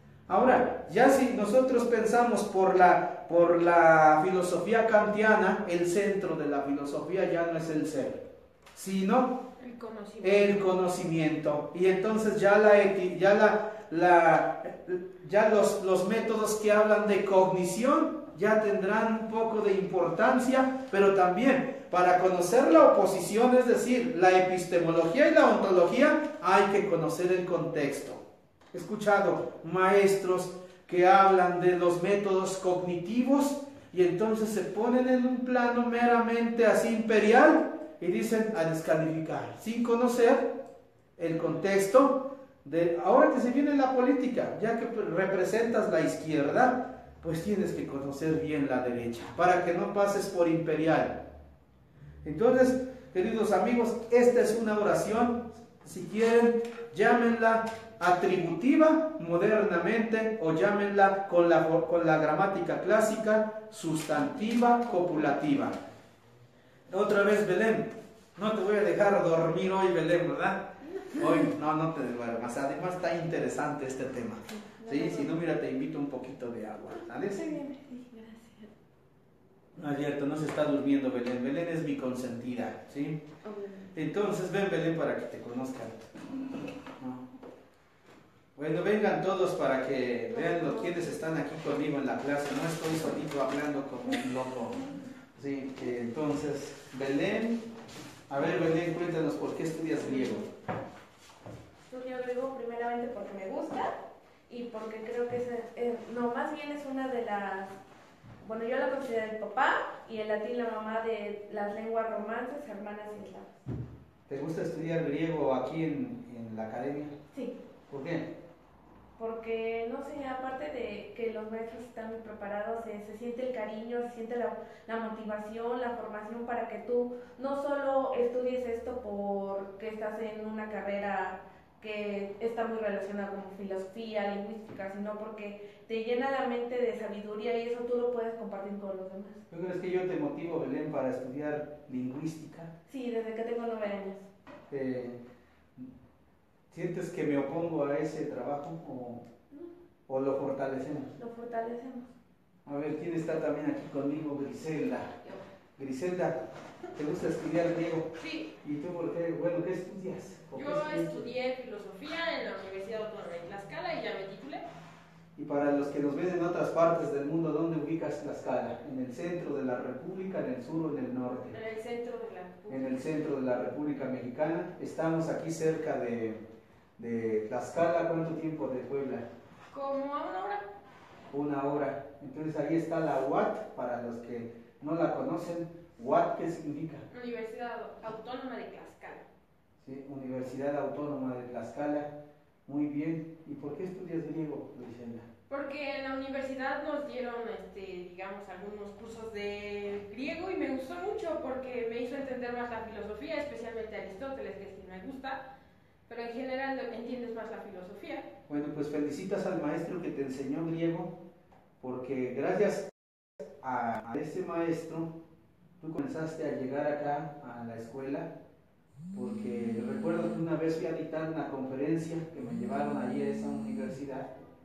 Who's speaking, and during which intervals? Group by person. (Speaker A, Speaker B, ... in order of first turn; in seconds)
Speaker A: 0.3-8.2, 8.7-9.4, 10.2-40.5, 41.2-51.2, 52.2-65.8, 66.9-77.6, 79.8-83.2, 83.9-86.1, 87.0-87.2, 88.5-94.8, 95.3-97.7, 98.3-100.5, 114.3-117.2, 117.9-118.3, 139.5-142.7, 144.7-145.2, 146.7-149.2, 150.1-151.1, 152.7-155.1, 155.8-156.4, 156.9-158.1, 158.6-161.3, 165.3-171.6, 172.7-176.4, 177.0-179.2, 181.3-187.1, 189.8-192.1, 192.7-195.3, 208.5-211.2, 211.8-215.1, 215.8-218.3, 219.1-224.3
Speaker B: 9.6-10.6, 158.2-158.5, 160.5-164.6, 171.5-173.2, 179.7-180.7, 187.1-189.2, 195.5-205.4, 206.1-208.3
Speaker C: 74.5-75.3, 77.1-78.7, 83.4-83.9, 90.3-91.2, 101.9-103.9, 104.5-107.8, 108.4-113.6, 119.2-139.4, 142.9-144.3, 151.2-152.1